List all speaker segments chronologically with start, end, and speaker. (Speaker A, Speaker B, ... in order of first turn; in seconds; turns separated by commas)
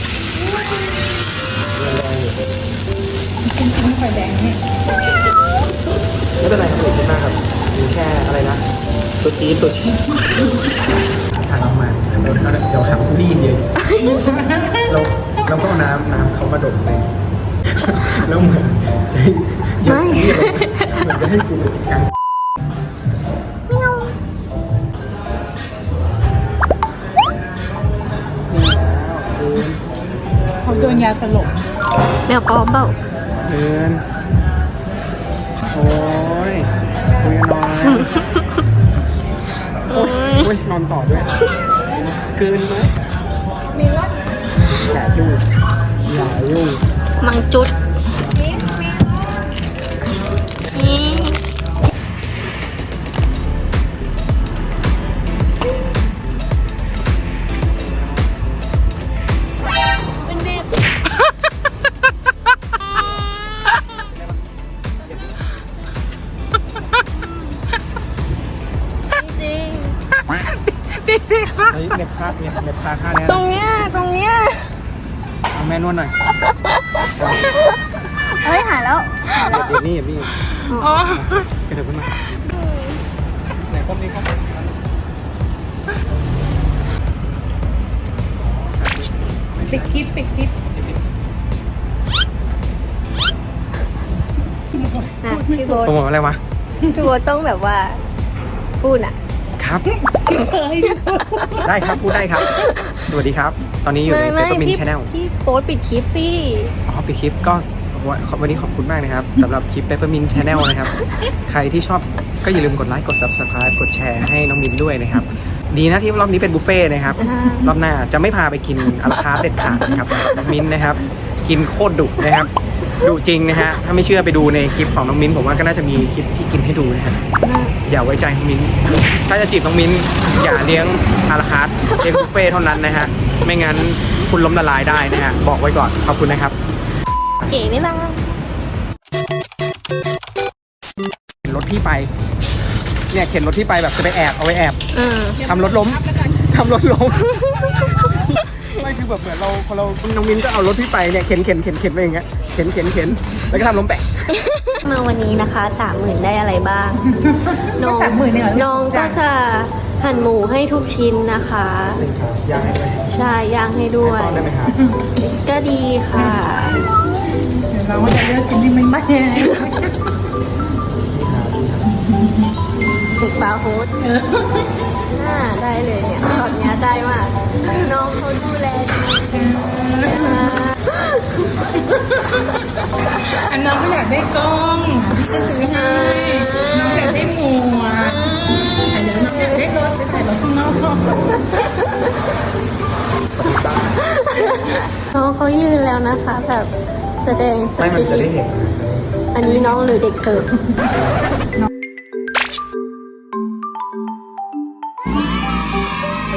Speaker A: 1.7-2.4, Speaker B: 3.5-4.6, Speaker A: 6.4-8.6, Speaker A: 9.2-10.4, Speaker A: 11.3-13.7, Speaker C: 13.8-14.4, Speaker B: 14.1-14.8, Speaker A: 14.8-17.1, Speaker A: 17.7-22.1, Speaker C: 19.9-21.1, Speaker A: 28.5-29.8, Speaker B: 30.6-31.6, Speaker A: 30.6-31.1, Speaker C: 32.3-33.0, Speaker A: 33.4-34.0, Speaker A: 35.7-38.1, Speaker C: 37.8-38.6, Speaker C: 39.9-40.5, Speaker A: 39.9-41.3, Speaker A: 42.1-42.9, Speaker B: 43.8-44.1, Speaker A: 44.7-45.4, Speaker A: 46.0-46.8, Speaker C: 47.2-47.7, Speaker C: 50.7-51.4, Speaker C: 60.2-60.7, Speaker C: 67.2-67.6, Speaker C: 69.1-70.0, Speaker C: 71.1-71.7, Speaker A: 71.7-73.5, Speaker C: 73.3-74.7, Speaker A: 75.5-76.1, Speaker C: 76.4-77.7, Speaker A: 77.2-77.5, Speaker C: 78.3-79.7, Speaker A: 79.3-80.4, Speaker C: 80.7-81.1, Speaker A: 80.9-82.3, Speaker C: 82.5-83.0, Speaker A: 83.6-84.7, Speaker A: 88.6-90.1, Speaker B: 89.7-90.5, Speaker B: 94.7-95.8, Speaker C: 95.2-96.0, Speaker A: 95.8-96.4, Speaker C: 96.9-98.0, Speaker C: 98.8-99.2, Speaker A: 99.6-99.8, Speaker B: 100.0-101.8, Speaker C: 100.3-101.5, Speaker A: 101.6-105.1, Speaker C: 102.4-103.0, Speaker C: 104.0-106.7, Speaker A: 106.9-127.2, Speaker C: 117.2-117.7, Speaker C: 119.9-120.4, Speaker C: 127.4-127.7, Speaker A: 127.8-136.6, Speaker C: 137.5-138.2, Speaker A: 141.4-142.1, Speaker A: 143.1-144.8, Speaker C: 144.9-145.4, Speaker B: 145.4-146.4, Speaker A: 145.4-154.3, Speaker C: 147.2-148.3, Speaker C: 154.3-157.1, Speaker B: 157.2-159.2, Speaker C: 157.7-162.0, Speaker A: 162.0-163.1, Speaker C: 163.1-164.5, Speaker A: 164.0-164.8, Speaker C: 165.2-166.8, Speaker B: 167.7-169.9, Speaker C: 169.3-169.7, Speaker A: 170.9-172.0, Speaker C: 173.0-173.9, Speaker B: 174.0-174.7, Speaker C: 175.0-181.8, Speaker B: 179.3-180.6, Speaker B: 181.9-182.4, Speaker B: 183.4-191.3, Speaker C: 185.3-187.2, Speaker C: 188.0-189.7, Speaker C: 191.3-192.1, Speaker A: 193.3-194.0, Speaker C: 194.1-198.3, Speaker A: 197.8-199.1, Speaker C: 199.3-200.5, Speaker A: 200.9-201.2